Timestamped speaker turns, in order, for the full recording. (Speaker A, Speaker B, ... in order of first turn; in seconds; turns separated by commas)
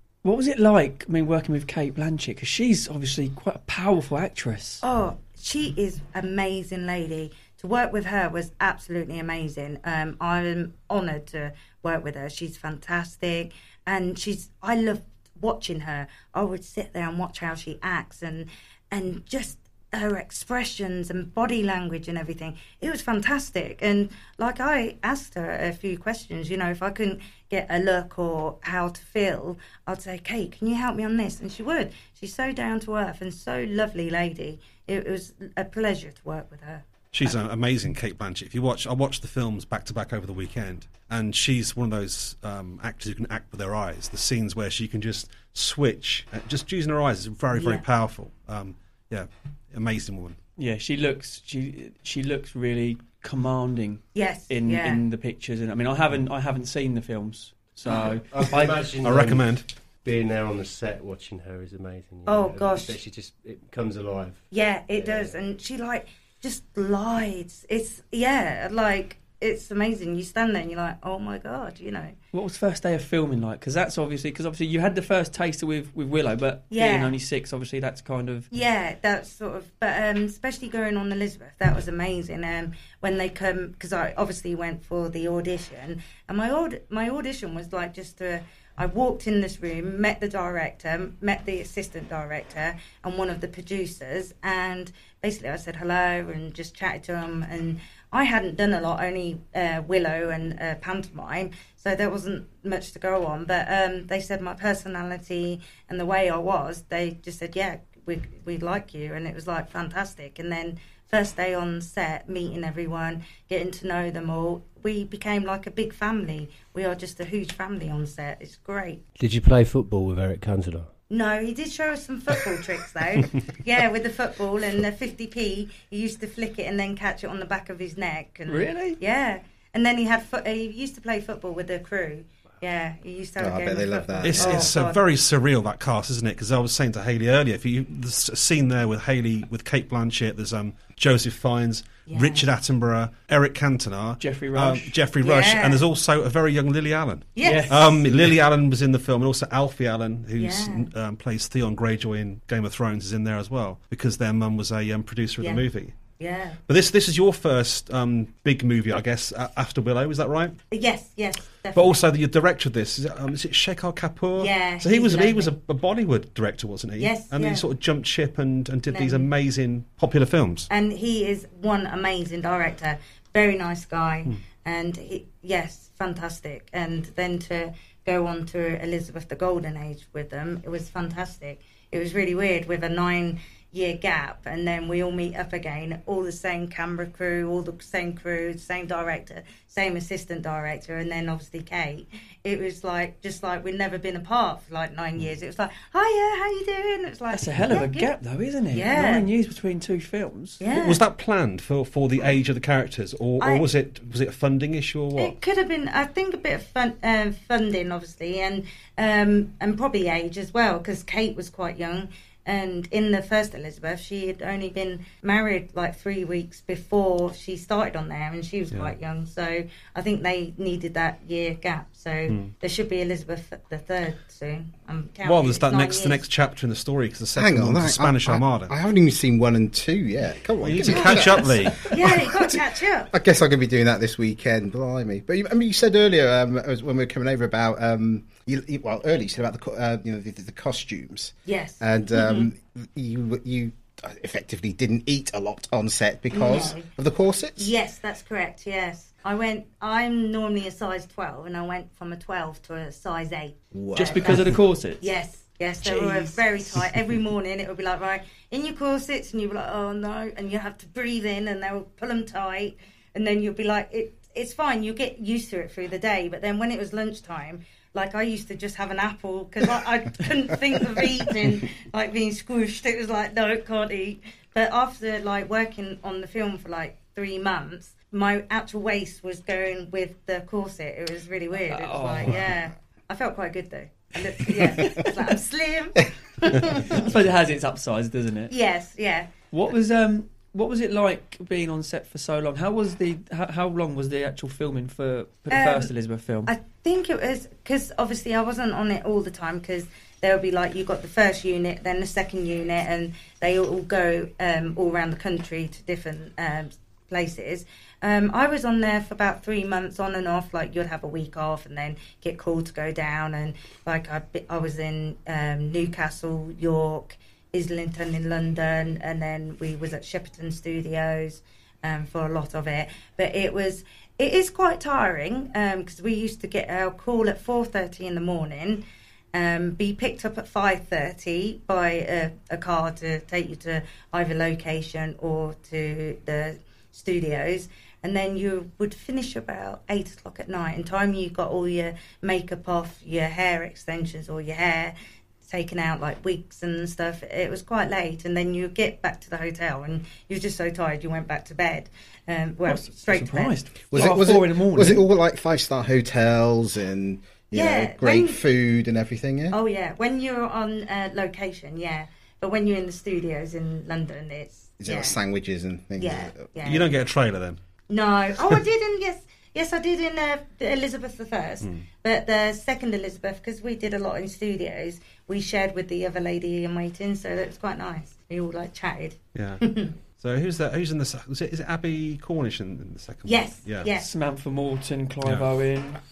Speaker A: 0.2-4.8, Speaker B: 4.8-37.4, Speaker C: 37.1-50.4, Speaker B: 47.5-47.8, Speaker A: 50.6-58.8, Speaker B: 54.1-55.0, Speaker D: 57.9-65.4, Speaker C: 59.0-59.7, Speaker B: 62.3-63.0, Speaker B: 64.5-72.2, Speaker A: 72.3-78.5, Speaker B: 76.7-77.2, Speaker B: 78.5-119.0, Speaker D: 119.2-120.9, Speaker B: 121.1-135.0, Speaker A: 128.5-129.0, Speaker E: 133.4-134.7, Speaker C: 134.2-155.9, Speaker B: 142.1-142.5, Speaker A: 144.2-144.9, Speaker B: 145.2-145.8, Speaker B: 147.4-147.8, Speaker A: 147.4-148.0, Speaker B: 150.4-150.9, Speaker B: 156.2-156.6, Speaker C: 156.7-160.6, Speaker B: 160.7-162.0, Speaker C: 161.7-170.7, Speaker B: 164.4-165.6, Speaker B: 167.0-167.6, Speaker B: 168.9-169.3, Speaker B: 170.7-198.1, Speaker A: 197.3-200.6, Speaker B: 198.7-199.3, Speaker B: 200.6-201.0, Speaker C: 200.7-205.3, Speaker B: 203.4-203.7, Speaker B: 205.2-226.2, Speaker C: 222.3-222.5, Speaker C: 225.2-228.7, Speaker E: 227.3-232.4, Speaker C: 230.6-232.2, Speaker B: 230.9-233.1, Speaker E: 233.1-247.7, Speaker B: 241.5-242.5, Speaker B: 246.3-246.9, Speaker B: 247.6-287.1, Speaker E: 253.7-254.6, Speaker A: 254.0-255.1, Speaker A: 281.7-282.4, Speaker A: 284.6-285.1, Speaker A: 286.8-288.5, Speaker B: 288.5-289.3, Speaker A: 289.5-296.5, Speaker B: 295.5-295.9, Speaker B: 296.5-344.9, Speaker B: 345.5-353.6, Speaker A: 352.6-355.1, Speaker E: 353.9-359.6, Speaker B: 357.5-358.4, Speaker B: 359.5-365.2, Speaker E: 364.8-366.5, Speaker B: 366.0-366.9, Speaker C: 366.6-367.6, Speaker B: 367.9-379.9, Speaker C: 379.4-379.6, Speaker C: 380.2-383.9, Speaker B: 383.3-384.1, Speaker A: 384.0-386.0